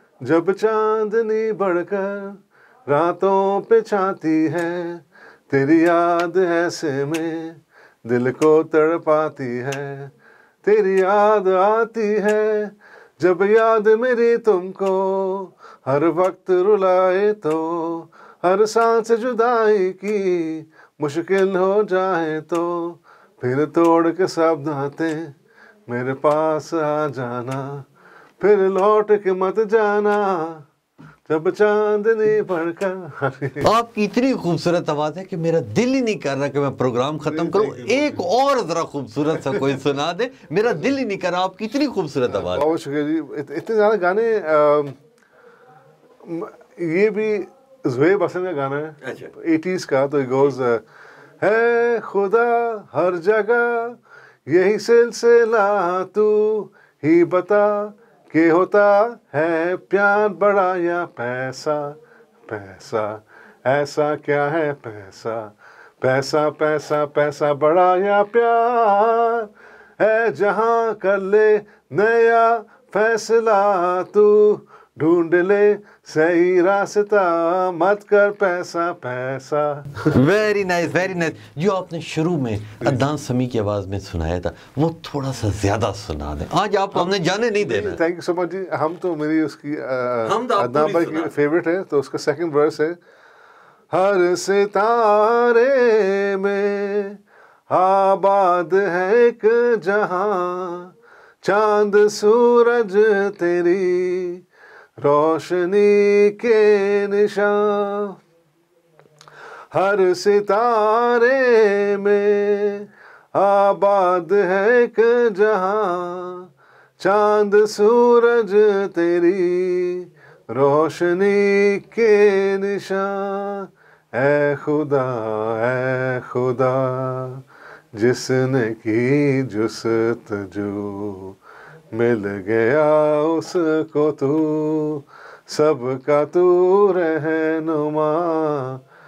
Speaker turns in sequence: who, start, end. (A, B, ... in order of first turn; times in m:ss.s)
0:00.2-0:10.1 A
0:10.6-0:25.4 A
0:25.9-0:27.8 A
0:28.4-0:30.6 A
0:31.3-0:33.7 A
0:33.6-0:42.7 B
0:37.2-0:38.2 A
0:39.4-0:39.6 A
0:42.3-0:45.0 A
0:46.2-0:50.8 A
0:49.0-0:49.3 B
0:51.4-1:20.2 A
1:20.1-1:28.0 B
1:26.9-1:33.0 A
1:30.2-1:31.3 B
1:33.9-1:44.4 A
1:45.0-1:48.2 A
1:49.7-2:07.4 A
2:07.9-2:11.4 A
2:11.9-2:18.8 A